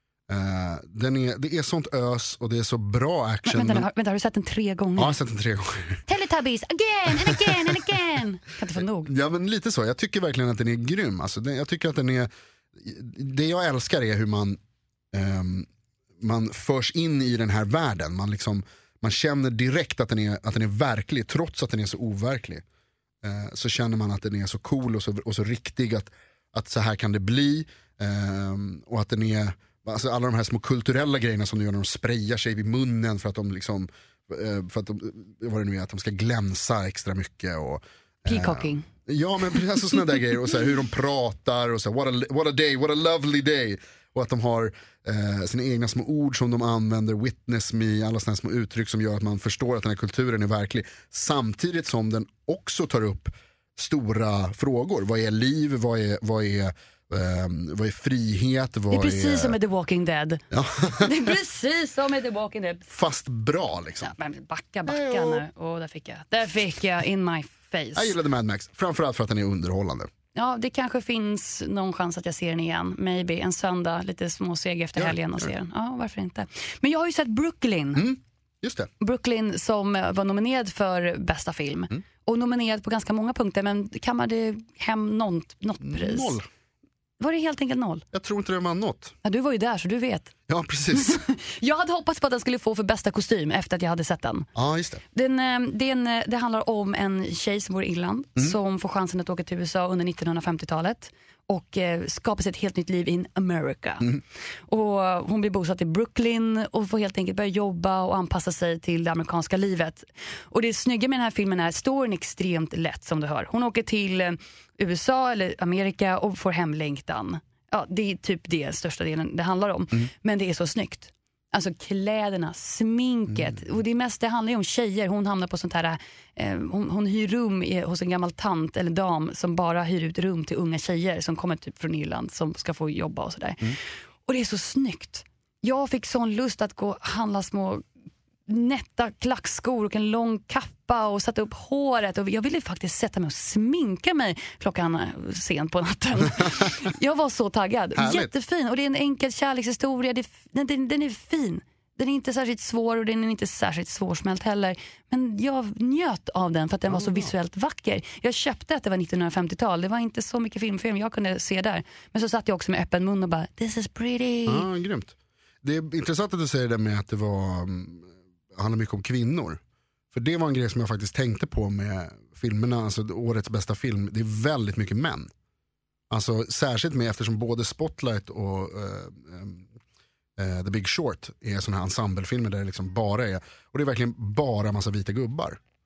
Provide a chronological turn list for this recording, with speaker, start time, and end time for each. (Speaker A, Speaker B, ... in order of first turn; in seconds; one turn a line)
Speaker A: 0.3-3.9
Speaker B: 3.5-5.2
Speaker A: 5.0-6.0
Speaker B: 6.1-9.1
Speaker A: 7.1-7.8
Speaker A: 9.0-14.6
Speaker A: 15.1-15.7
Speaker A: 16.2-22.6
Speaker A: 23.2-59.6
Speaker B: 38.2-38.9
Speaker B: 58.9-60.4
Speaker A: 60.5-61.3
Speaker B: 60.9-62.9
Speaker A: 62.9-64.1
Speaker B: 64.0-68.1
Speaker A: 64.9-65.4
Speaker A: 67.9-70.1
Speaker B: 70.3-78.1
Speaker A: 75.0-75.5
Speaker A: 77.9-78.9
Speaker B: 79.0-86.4
Speaker A: 85.8-86.5
Speaker B: 87.2-88.0
Speaker A: 88.1-89.1
Speaker B: 89.2-90.3
Speaker A: 90.5-91.2
Speaker B: 90.9-94.5
Speaker A: 94.5-95.0
Speaker B: 95.1-104.1
Speaker B: 104.7-137.8
Speaker B: 138.5-164.7
Speaker A: 147.9-148.3
Speaker A: 156.9-157.3
Speaker A: 164.5-169.6
Speaker A: 170.1-175.3
Speaker A: 176.1-179.6
Speaker A: 180.4-185.6